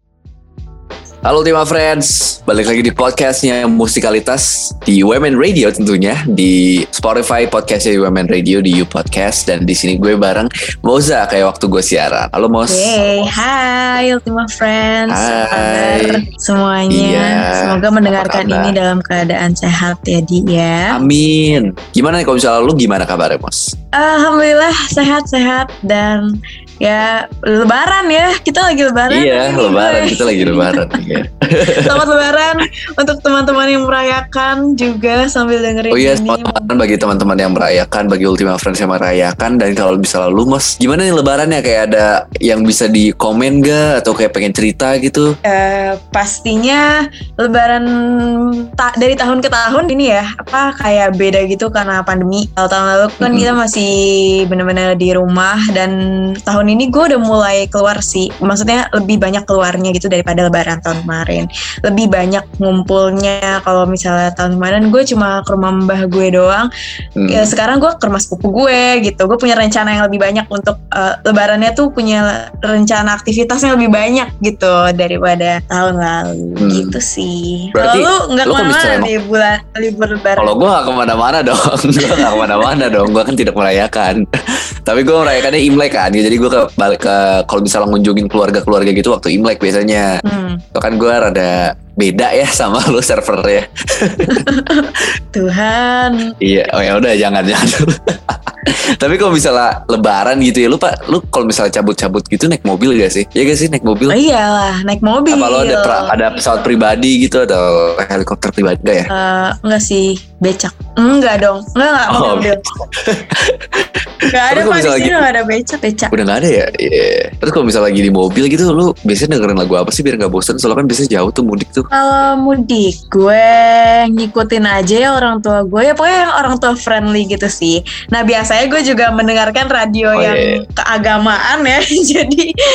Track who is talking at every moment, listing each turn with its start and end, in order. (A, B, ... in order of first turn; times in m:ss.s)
0:01.2-0:13.0 A
0:12.7-0:21.0 B
0:15.1-0:16.2 A
0:16.9-0:18.8 A
0:20.9-0:23.7 A
0:23.9-0:26.3 B
0:26.8-0:31.0 B
0:29.1-0:32.0 A
0:31.7-0:36.7 B
0:35.9-0:45.3 A
0:45.4-0:46.8 B
0:47.4-0:55.9 B
0:53.2-0:53.5 A
0:56.4-1:06.7 B
1:07.2-1:07.5 A
1:07.3-1:20.6 B
1:16.6-1:16.9 A
1:17.7-1:19.1 A
1:20.4-1:24.2 A
1:22.0-1:22.9 B
1:24.8-1:30.2 A
1:30.2-1:30.6 B
1:30.7-1:34.5 A
1:34.4-1:36.3 B
1:36.4-1:44.2 A
1:44.1-1:46.4 B
1:45.3-1:49.1 A
1:49.1-1:52.6 B
1:52.1-1:53.9 A
1:54.3-1:56.1 B
1:54.5-1:55.2 A
1:56.1-2:01.9 A
2:01.9-2:12.5 B
2:10.1-2:10.6 A